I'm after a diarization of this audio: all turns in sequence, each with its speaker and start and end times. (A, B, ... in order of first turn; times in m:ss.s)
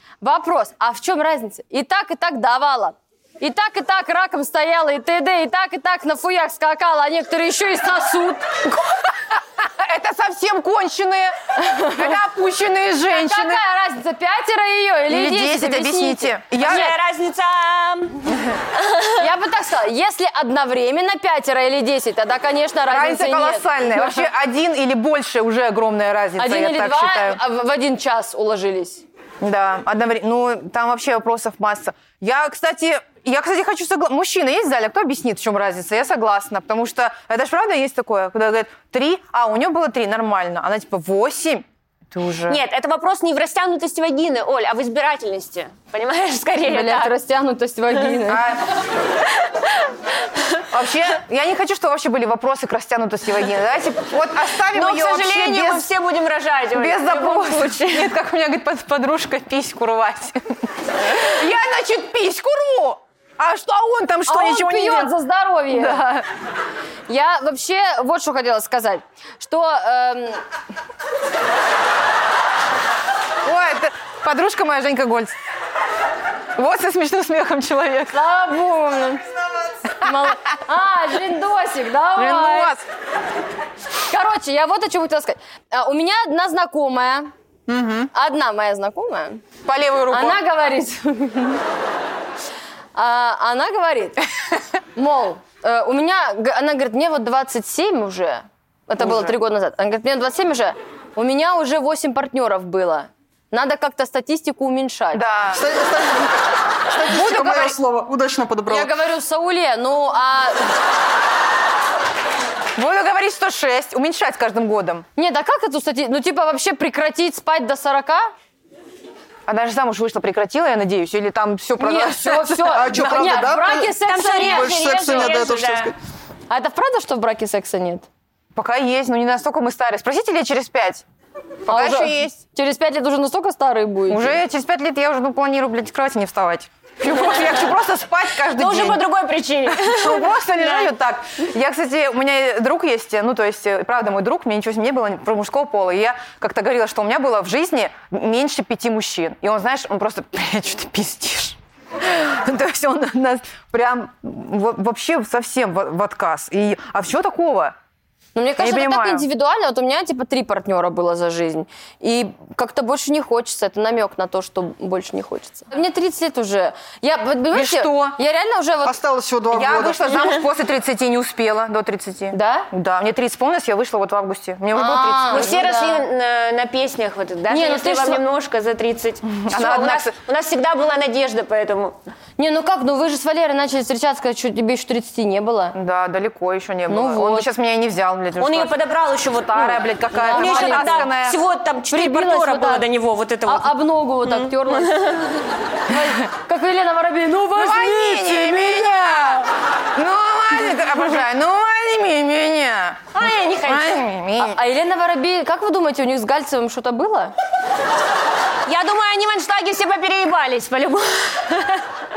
0:00.2-0:08.4 A
0:08.7-0:13.6 B
0:11.6-0:12.1 A
0:13.1-0:16.9 A
0:15.1-0:16.9 B
0:16.5-0:19.2 C
0:19.2-0:24.2 A
0:22.9-0:27.4 B
0:26.4-0:29.0 A
0:29.4-0:42.6 B
0:42.5-0:47.1 C
0:46.6-0:48.5 A
0:48.2-0:48.6 B
0:50.7-0:55.9 B
0:54.7-0:58.1 C
0:56.7-1:05.1 B
1:04.3-1:06.0 A
1:05.7-1:06.2 B
1:07.1-1:10.4 A
1:13.4-1:15.3 B
1:16.6-1:18.2 B
1:18.1-1:19.2 A
1:20.0-1:22.7 A
1:20.0-1:20.3 B
1:22.2-1:22.8 B
1:24.1-1:27.3 A
1:27.7-1:28.1 B
1:28.1-1:29.4 A
1:29.6-1:30.4 B
1:30.1-1:31.6 A
1:32.9-1:34.2 A
1:34.9-1:45.2 A
1:39.0-1:39.3 B
1:45.1-1:45.6 B
1:45.5-1:46.4 D
1:46.9-1:48.9 D
1:47.1-1:47.8 B
1:48.7-1:50.7 A
1:52.8-1:55.0 B
1:55.2-1:58.3 A
1:59.5-2:03.4 B
2:01.8-2:04.9 A
2:02.7-2:06.0 D
2:04.0-2:05.9 C
2:06.5-2:08.1 A
2:08.5-2:11.0 B
2:11.6-2:12.4 B
2:11.7-2:14.4 A
2:14.1-2:19.1 B
2:18.5-2:20.9 C
2:19.7-2:37.7 B
2:38.3-2:49.0 A
2:38.6-2:39.2 B
2:47.5-2:48.2 B
2:48.8-2:50.4 D
2:49.5-2:55.8 B
2:52.3-2:52.7 A
2:54.7-2:56.0 A
2:55.3-3:02.0 C
2:57.5-2:58.2 A
2:59.4-3:00.2 B
3:02.4-3:05.7 A
3:05.7-3:08.7 B
3:06.9-3:07.5 A
3:08.4-3:13.7 C
3:09.5-3:11.4 B
3:10.2-3:11.1 A
3:11.9-3:12.8 A
3:13.4-3:15.1 A
3:14.2-3:15.2 C
3:15.9-3:18.6 A
3:17.5-3:23.1 B
3:23.1-3:24.0 C
3:23.6-3:24.6 B
3:24.4-3:27.3 A
3:28.7-3:31.8 C